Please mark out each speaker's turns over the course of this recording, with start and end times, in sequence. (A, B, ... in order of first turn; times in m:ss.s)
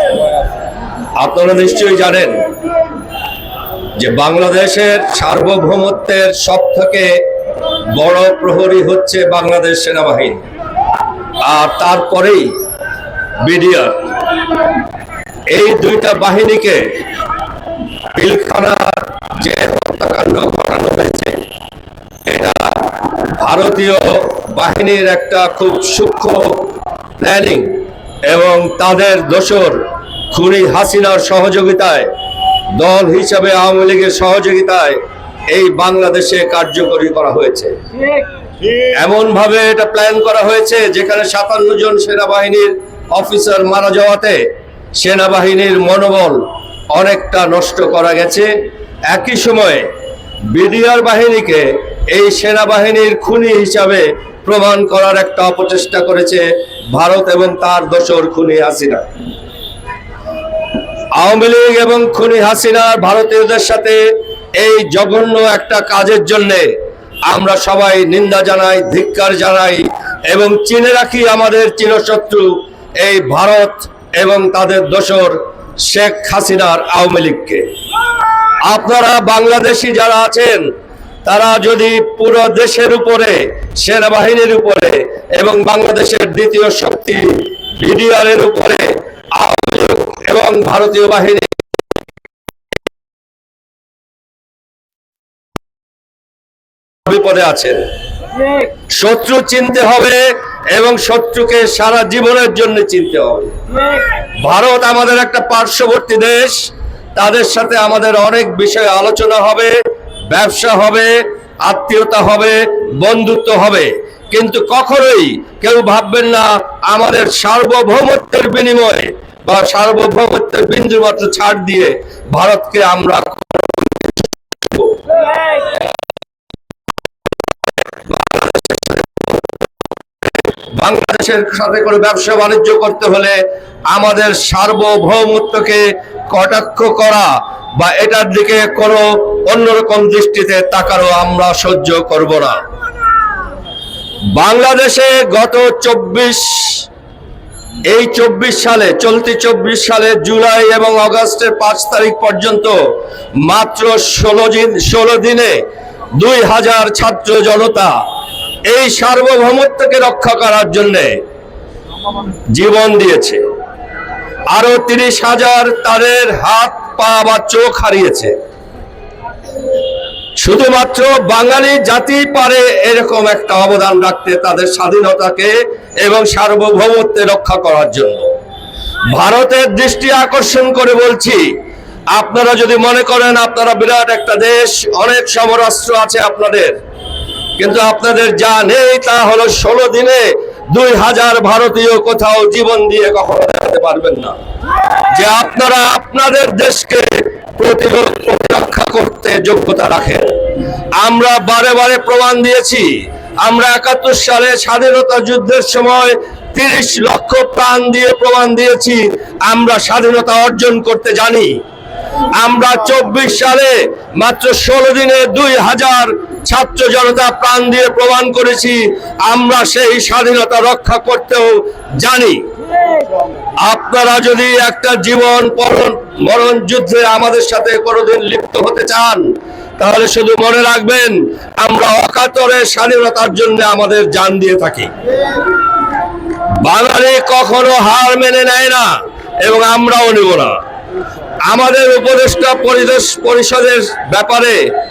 0:01.2-0:02.4 A
0:04.0-0:07.2 A
0:07.9-0:10.4 A
0:11.4-0:12.5 A
0:13.4-0:14.1 A
0:15.5-0:16.8 A
0:18.1-0:21.4 A
0:22.2-0:32.1 A
0:32.7-0:35.0 A
0:35.5-0:37.8 A
0:38.8-0:44.4 A
0:44.9-0:48.5 A
0:49.1-0:49.9 A
0:50.5-0:59.1 A
1:01.2-1:04.0 A
1:04.6-1:06.7 A
1:07.3-1:17.6 A
1:18.6-1:20.6 A
1:21.2-1:31.5 A
1:37.0-1:37.8 A
1:38.9-1:49.7 A
1:50.3-2:05.8 A
2:08.0-2:09.5 A
2:10.7-2:13.4 A
2:13.9-2:22.6 A
2:24.3-2:26.9 A
2:27.9-2:32.8 A
2:33.4-2:35.6 A
2:36.1-2:38.0 A
2:38.6-2:41.2 A
2:42.5-2:43.4 A
2:44.5-2:48.3 A
2:50.4-2:58.3 A
2:59.1-3:01.5 A
3:02.1-3:06.8 A
3:07.6-3:14.4 A
3:15.0-3:20.3 A
3:21.0-3:22.9 A
3:23.4-3:31.6 A
3:32.3-3:42.4 A
3:43.6-3:54.9 A
3:56.6-4:00.6 A
4:01.4-4:04.6 A